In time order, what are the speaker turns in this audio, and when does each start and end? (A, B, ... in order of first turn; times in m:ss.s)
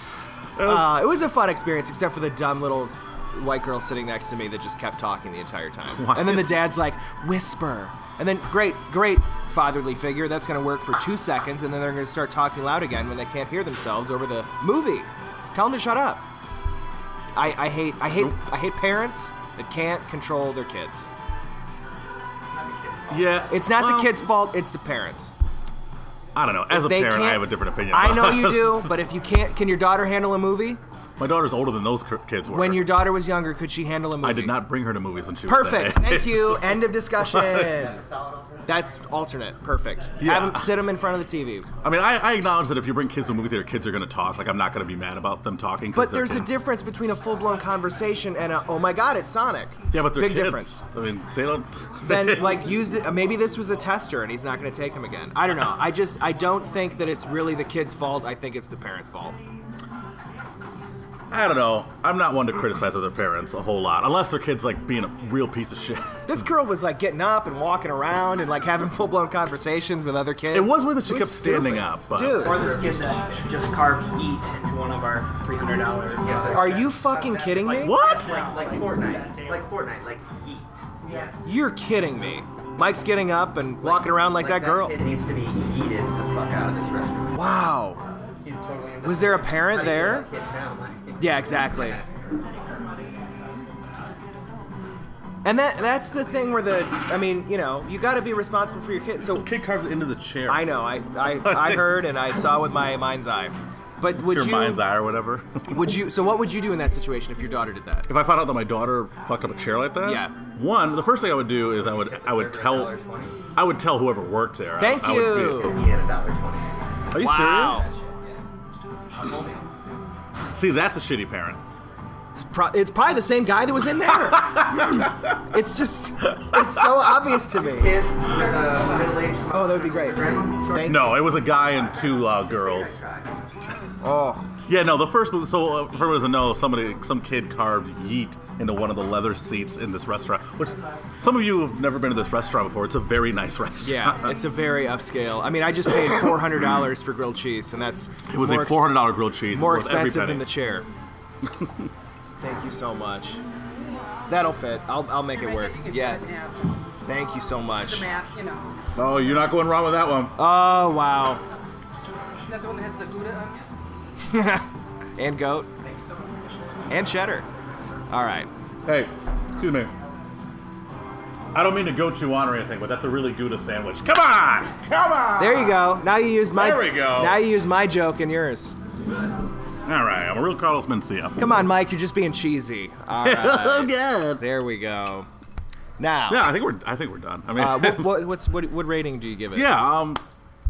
0:00.6-0:01.1 A
0:00.6-0:16.2 B
0:05.9-0:06.7 A
0:17.4-0:21.1 B
0:18.0-0:18.4 A
0:22.5-0:23.5 C
0:23.1-0:24.3 A
0:23.5-0:25.4 B
0:26.3-0:28.9 A
0:26.7-0:30.8 B
0:31.2-0:33.0 A
0:32.5-0:34.5 B
0:34.2-0:37.7 A
0:35.4-0:38.0 B
0:37.5-0:38.6 C
0:38.6-0:41.7 B
0:40.2-0:40.7 A
0:41.8-0:46.5 A
0:45.9-0:50.8 B
0:49.9-0:52.7 A
0:52.0-0:59.4 B
1:01.3-1:06.5 A
1:06.3-1:12.6 B
1:10.5-1:12.6 A
1:12.4-1:16.9 D
1:12.4-1:13.5 C
1:16.2-1:21.4 C
1:16.5-1:18.0 B
1:17.4-1:19.7 D
1:17.8-1:18.4 A
1:21.0-1:21.4 D
1:21.4-1:24.9 B
1:23.8-1:32.1 C
1:27.3-1:28.0 B
1:29.0-1:30.3 B
1:31.2-1:32.0 B
1:35.4-1:39.4 B
1:39.2-1:42.0 A
1:40.5-1:44.8 B
1:44.1-1:45.9 A
1:45.7-1:48.1 B
1:48.1-1:52.9 A
1:50.0-1:50.3 B
1:51.8-1:53.4 C
1:53.5-1:55.8 A
1:54.8-1:55.8 B
1:55.6-1:56.8 C
1:57.1-1:57.9 A
1:57.2-1:57.9 B
1:59.2-1:59.6 C
2:00.5-2:01.6 A
2:02.5-2:08.0 B
2:04.3-2:05.0 A
2:06.3-2:06.8 A
2:07.6-2:13.3 C
2:08.4-2:09.1 E
2:09.5-2:11.3 B
2:10.8-2:13.0 A
2:14.0-2:14.5 B
2:14.7-2:24.4 A
2:23.8-2:28.9 B
2:26.3-2:26.9 A
2:28.3-2:30.5 A
2:29.5-2:30.9 B
2:31.4-2:31.9 A
2:32.4-2:33.4 B
2:34.3-2:36.2 B
2:35.3-2:36.8 E
2:37.1-2:38.1 B
2:37.8-2:38.7 E
2:39.0-2:40.3 A
2:40.4-2:41.4 B
2:42.4-2:43.6 E
2:44.3-2:44.6 B
2:45.2-2:45.7 B
2:46.9-2:47.4 B
2:48.1-2:48.5 B
2:48.8-2:49.9 A
2:51.5-2:56.0 A
2:55.4-2:58.8 B
2:56.5-2:57.4 A
2:59.8-3:01.5 A
3:01.4-3:05.3 B
3:03.2-3:04.4 A
3:06.0-3:06.5 B
3:06.3-3:08.1 A
3:07.6-3:09.8 B
3:09.5-3:10.2 A